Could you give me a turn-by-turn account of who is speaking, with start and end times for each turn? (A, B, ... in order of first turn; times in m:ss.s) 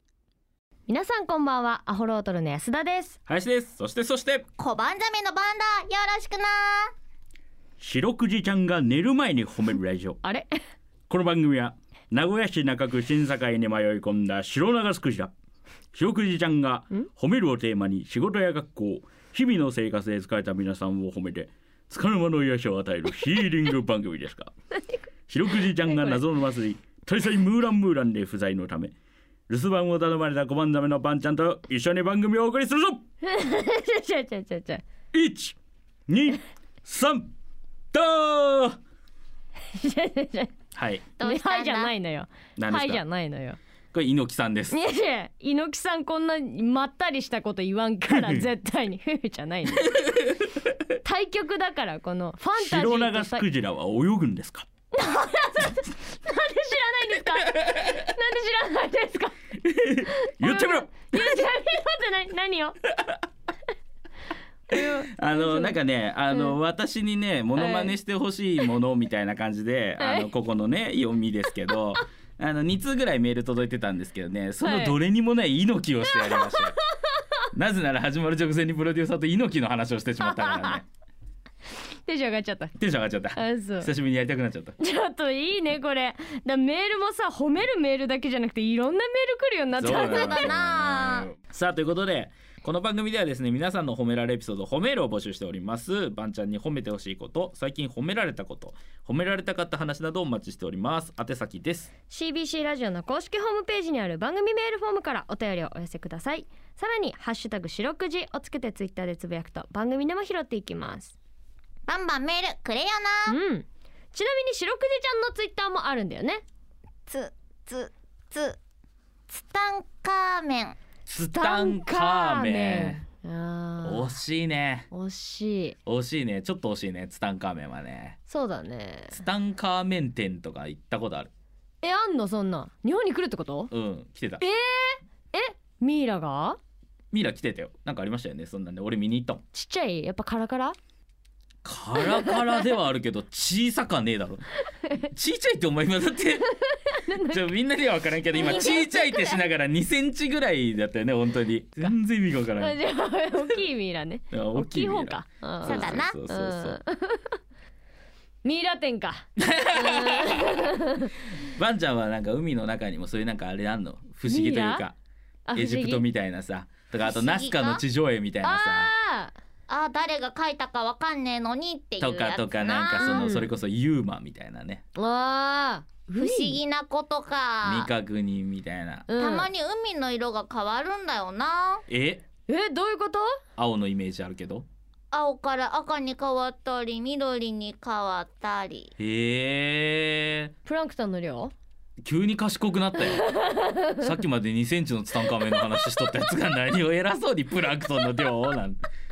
0:00.9-0:03.2 A
0:03.3-0:04.5 B
0:04.6-0:06.9 C
0:07.8-0:10.2 B
0:10.2-0:10.6 A
0:11.1-0:15.3 B
0:15.9-0:24.5 B
0:25.3-0:28.9 B
0:25.9-0:26.2 A
0:29.5-0:33.0 B
0:33.2-0:34.8 A
0:35.1-0:35.6 B
0:36.1-0:37.3 B
0:37.9-0:38.8 B
0:39.7-0:40.5 A
0:40.8-0:41.1 B
0:41.2-0:41.9 C
0:41.2-0:43.6 A
0:42.6-0:43.0 B
0:43.9-0:44.8 B
0:44.7-0:50.1 A
0:48.1-0:48.4 B
0:50.0-0:50.4 B
0:51.0-0:53.4 A
0:52.6-0:54.7 B
0:54.9-0:59.4 A
0:59.6-1:01.4 B
1:00.2-1:02.8 A
1:04.7-1:05.8 A
1:04.8-1:16.8 B
1:07.6-1:08.0 A
1:10.0-1:10.3 A
1:14.6-1:15.0 A
1:16.1-1:16.7 A
1:17.5-1:20.8 B
1:20.2-1:20.8 A
1:21.9-1:22.7 A
1:22.8-1:24.8 B
1:23.4-1:23.9 A
1:24.8-1:30.5 A
1:29.8-1:41.9 B
1:29.8-1:31.3 C
1:42.1-1:51.2 A
1:51.9-1:53.3 C
1:53.3-1:56.4 A
1:57.1-1:58.6 C
1:59.3-2:00.8 C
2:01.1-2:03.0 B
2:01.2-2:04.2 A
2:03.8-2:04.9 B
2:04.9-2:05.8 A
2:05.9-2:08.2 B
2:08.3-2:09.2 A
2:09.2-2:11.3 B
2:11.8-2:13.7 A
2:13.7-2:14.4 B
2:14.4-2:16.6 A
2:17.1-2:19.4 B
2:19.5-2:20.8 A
2:21.6-2:24.4 B
2:22.1-2:22.3 A
2:25.0-2:26.5 B
2:26.8-2:27.4 A
2:27.3-2:32.8 B
2:28.4-2:28.8 A
2:28.4-2:29.4 C
2:32.6-2:37.4 A
2:34.3-2:36.8 B
2:35.6-2:36.2 C
2:38.4-2:41.1 A
2:39.4-2:40.6 B
2:41.3-2:45.0 B
2:44.2-2:44.9 A
2:45.5-2:46.0 A
2:45.6-2:48.9 B
2:47.0-2:47.8 C
2:48.4-2:49.4 A
2:49.7-2:53.3 C
2:52.0-2:54.8 B
2:53.0-2:53.5 A
2:55.0-2:56.6 A
2:56.2-2:57.9 C
2:57.6-2:59.1 B
2:59.1-2:59.5 A
2:59.2-3:01.8 C
3:01.9-3:02.2 B
3:02.5-3:03.4 A
3:03.6-3:04.7 B
3:05.1-3:08.9 C
3:09.0-3:10.5 B
3:10.6-3:11.5 A
3:12.0-3:13.3 B
3:13.2-3:14.0 A
3:14.0-3:18.8 B